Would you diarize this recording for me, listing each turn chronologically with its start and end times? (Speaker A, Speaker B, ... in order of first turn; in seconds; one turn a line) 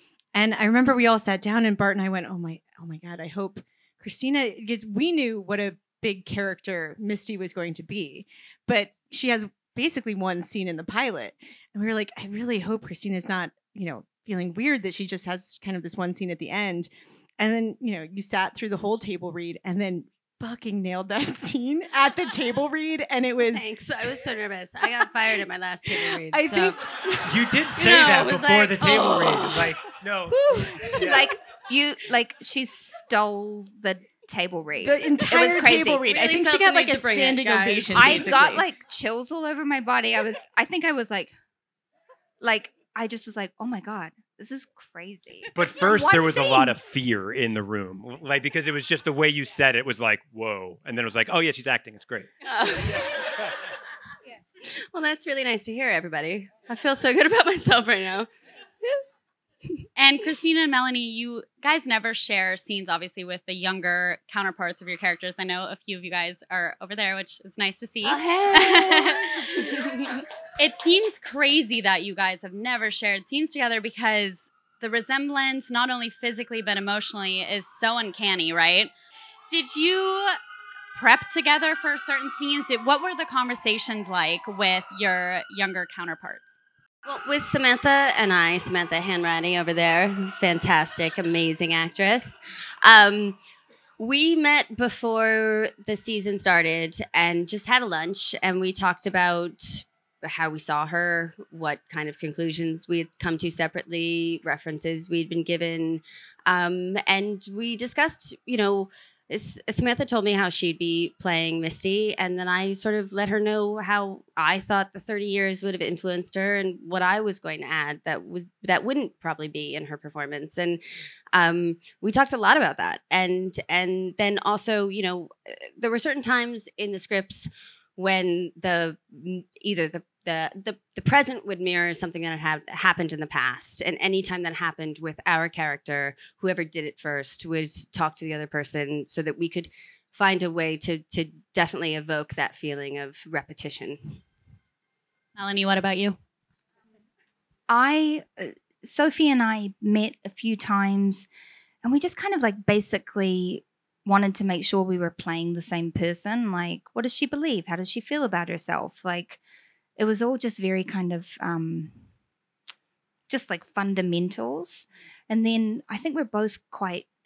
Speaker A: 0.3-23.6
Speaker B: 23.5-26.9
Speaker A: 25.9-27.4
Speaker C: 27.2-31.3
Speaker B: 27.8-29.8
Speaker A: 30.5-30.9
Speaker B: 30.8-31.2
Speaker D: 31.0-36.1
Speaker A: 34.8-38.6
Speaker B: 36.0-38.6
Speaker D: 37.9-41.3
Speaker D: 42.4-46.8
Speaker C: 45.5-52.3
Speaker B: 52.4-53.4
Speaker B: 54.6-58.3
Speaker E: 60.0-69.8
Speaker B: 68.0-70.2
Speaker E: 70.6-78.9
Speaker E: 79.5-80.4
Speaker E: 81.0-86.6
Speaker B: 87.0-93.4
Speaker B: 94.0-120.8
Speaker B: 121.3-144.2
Speaker E: 145.4-146.2
Speaker D: 147.7-151.3
Speaker D: 151.8-159.4
Speaker D: 160.0-162.1
Speaker D: 163.3-167.1